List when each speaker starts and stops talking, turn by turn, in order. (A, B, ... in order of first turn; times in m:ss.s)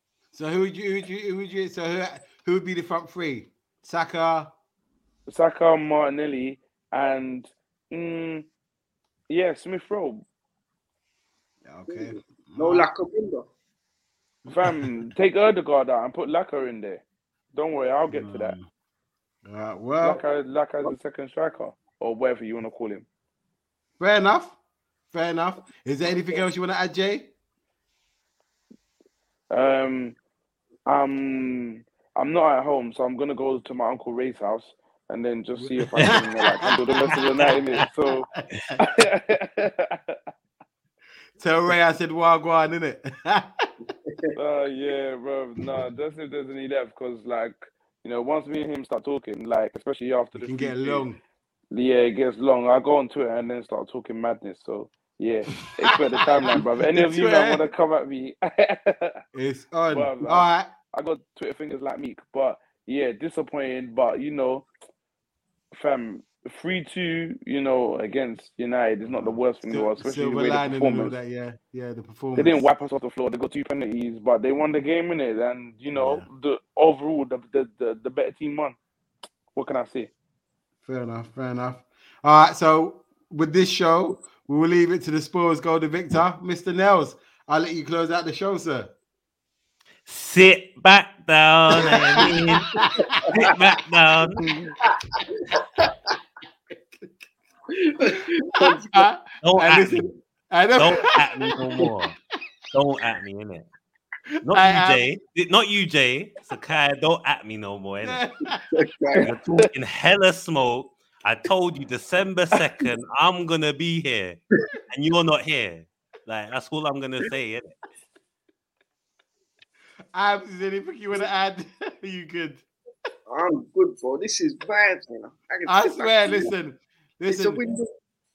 0:00.3-0:04.5 A
0:05.3-0:08.4 B
0:09.3-0:10.2 B
0:11.7-0:12.9 A
0:11.9-0:13.4 C
0:14.4-0:14.9 A
0:14.5-0:18.5 B
0:18.1-0:18.6 A
0:19.4-0:20.2 A
0:20.0-0:23.0 B
0:24.0-0:24.6 A
0:25.1-0:27.3 A
0:29.5-0:30.2 B
0:30.8-0:40.2 B
0:35.6-0:37.8 A
0:37.1-0:37.6 D
0:41.4-0:43.7 A
0:43.9-0:44.4 C
0:44.3-0:51.0 B
0:50.3-0:51.2 A
0:51.7-0:59.2 B
0:55.6-0:57.6 A
0:59.3-1:00.7 A
0:59.9-1:04.6 B
1:05.7-1:11.1 B
1:09.1-1:12.7 A
1:12.4-1:18.8 B
1:15.9-1:16.2 A
1:19.5-1:20.1 B
1:20.8-1:28.9 A
1:30.0-1:34.4 D
1:31.9-1:33.3 A
1:33.0-1:33.5 C
1:35.1-1:35.9 C
1:37.7-1:39.1 C
1:38.1-1:41.6 A
1:39.4-1:40.2 D
1:40.8-1:42.1 D
1:42.7-1:43.7 D
1:44.3-1:45.1 A
1:44.4-1:48.2 D
1:48.0-1:48.7 A
1:48.7-1:49.3 C
1:49.2-1:54.4 D
1:54.9-1:57.7 D
2:00.1-2:02.6 A
2:03.3-2:06.5 C
2:05.6-2:07.6 A
2:07.3-2:07.9 C